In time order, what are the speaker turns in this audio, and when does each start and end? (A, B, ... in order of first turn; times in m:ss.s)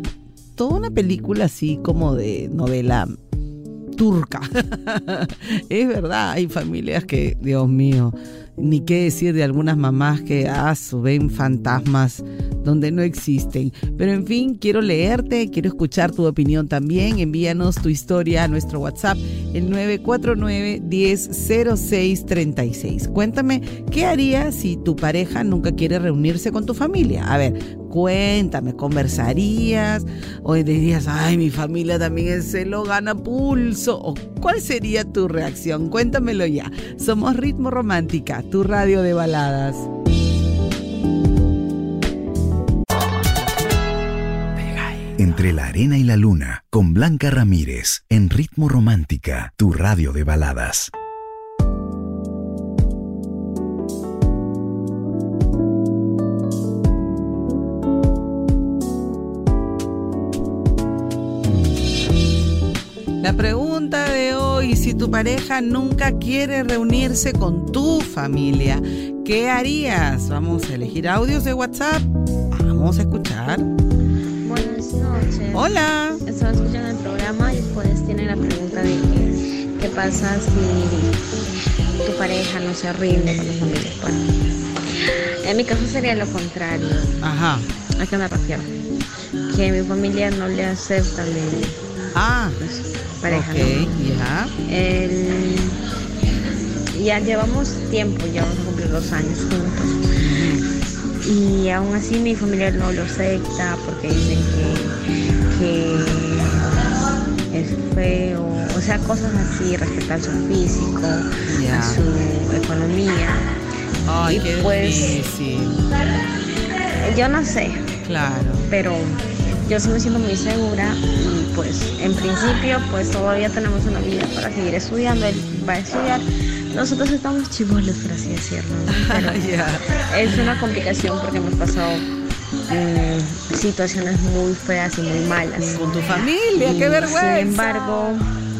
0:00.6-0:03.1 A
0:04.0-0:39.9 A
0:45.2-0:50.9 B
1:03.2-1:13.7 A
1:14.4-1:21.2 C
1:15.5-1:16.2 A
1:22.0-1:24.2 C
1:24.9-1:27.2 C
1:27.2-1:27.7 A
1:28.0-1:28.7 C
1:29.5-1:31.8 C
1:32.1-1:32.6 A
1:32.6-1:33.9 C
1:33.3-1:34.5 A
1:34.6-1:35.8 C
1:36.9-1:40.0 C
1:40.2-1:40.6 A
1:41.2-1:45.0 C
1:45.5-1:46.8 C
1:47.5-1:53.5 C
1:51.4-1:52.0 A
1:54.0-1:55.8 A
1:54.2-1:55.2 C
1:57.0-1:57.9 C
1:58.0-1:58.7 A
1:58.7-2:12.0 C
2:08.9-2:10.4 A
2:12.7-2:18.3 C
2:15.7-2:18.2 A